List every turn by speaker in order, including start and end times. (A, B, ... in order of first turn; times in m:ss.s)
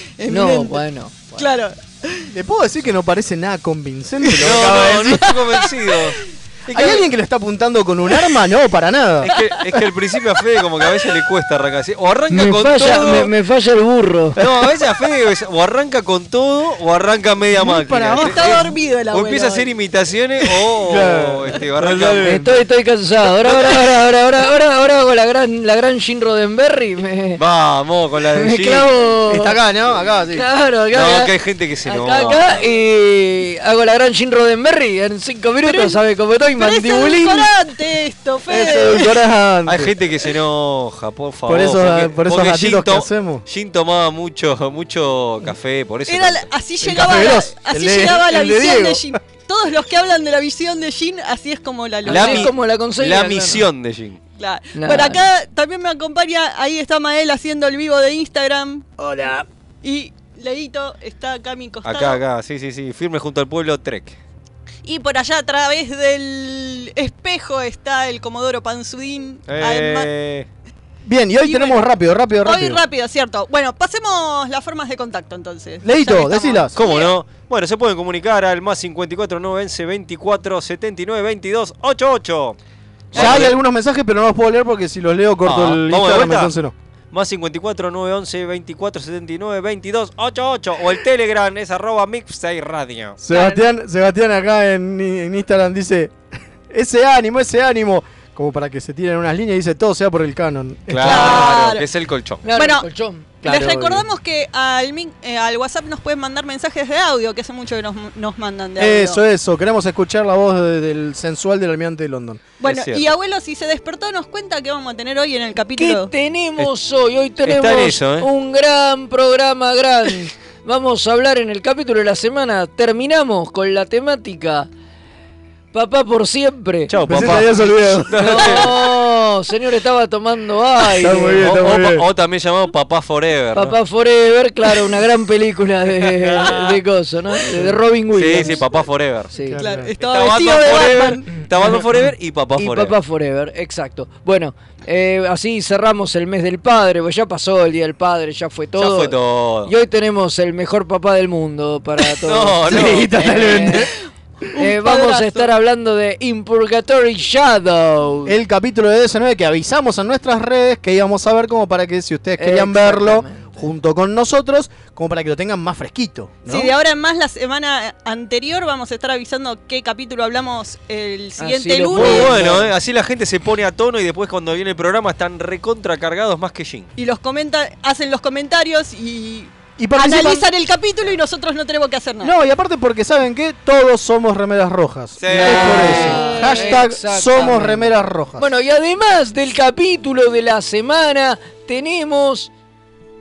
0:00.2-0:00.8 A
0:00.3-0:01.3 B
0:01.3-0:02.3 A
0:02.3-0:05.3 C
0:04.2-0:04.7 A
0:04.4-0:06.2 D
0:05.2-0:06.1 A
0:06.7-0:09.8 C
0:06.8-0:07.0 A
0:09.2-0:13.3 D
0:09.3-0:09.6 A
0:12.3-0:14.4 B
0:14.4-0:22.3 D
0:14.4-0:14.7 C
0:17.5-0:18.7 C
0:18.2-0:19.7 A
0:20.8-0:22.6 C
0:22.2-0:27.4 B
0:27.4-0:28.9 D
0:28.3-0:29.6 B
0:29.3-0:30.4 C
0:30.3-0:37.5 B
0:30.9-0:32.4 D
0:35.6-0:36.0 A
0:36.6-0:39.2 A
0:38.5-0:40.0 C
0:39.6-0:46.5 D
0:41.4-0:43.4 C
0:46.1-0:52.5 A
0:46.8-0:49.0 C
0:52.0-0:54.2 D
0:52.1-0:53.7 B
0:54.4-0:58.9 A
0:54.7-0:55.3 B
0:59.0-0:59.4 C
0:59.8-1:02.2 A
1:01.8-1:04.2 D
1:04.8-1:10.1 A
1:09.5-1:10.4 D
1:11.0-1:12.8 C
1:11.4-1:11.8 A
1:12.4-1:17.1 A
1:15.8-1:16.7 C
1:16.7-1:22.6 D
1:23.1-1:23.5 A
1:23.1-1:23.6 D
1:23.1-1:26.7 C
1:25.4-1:26.5 D
1:27.1-1:33.2 D
1:33.2-1:36.1 C
1:33.3-1:33.6 A
1:36.7-1:41.5 C
1:40.9-1:42.4 D
1:41.0-1:41.8 A
1:42.4-1:43.3 B
1:42.5-1:42.9 A
1:43.4-1:44.0 C
1:43.4-1:49.2 A
1:48.8-1:52.4 C
1:52.6-1:56.1 A
1:52.6-1:53.1 D
1:55.8-2:04.7 B
1:57.4-1:58.3 D
2:05.7-2:07.4 B
2:06.9-2:08.8 D
2:07.0-2:08.6 C
2:08.2-2:11.5 B
2:11.0-2:12.0 C
2:11.4-2:13.8 D
2:13.5-2:18.6 B
2:16.0-2:16.7 D
2:18.1-2:19.3 D
2:19.3-2:19.6 B
2:19.4-2:19.9 C
2:19.6-2:21.3 A
2:20.0-2:22.9 D
2:22.6-2:33.9 B
2:28.8-2:29.7 D
2:32.2-2:33.3 D
2:32.7-2:33.9 C
2:34.5-2:35.5 A
2:34.5-2:38.4 B
2:38.3-2:46.7 C
2:42.4-2:43.7 B
2:46.5-2:52.4 A
2:51.4-2:52.7 B
2:51.9-2:56.9 D
2:57.0-3:02.3 A
2:59.8-3:00.4 C
3:02.2-3:08.5 C
3:05.2-3:06.2 D
3:05.3-3:12.5 B
3:06.1-3:06.8 A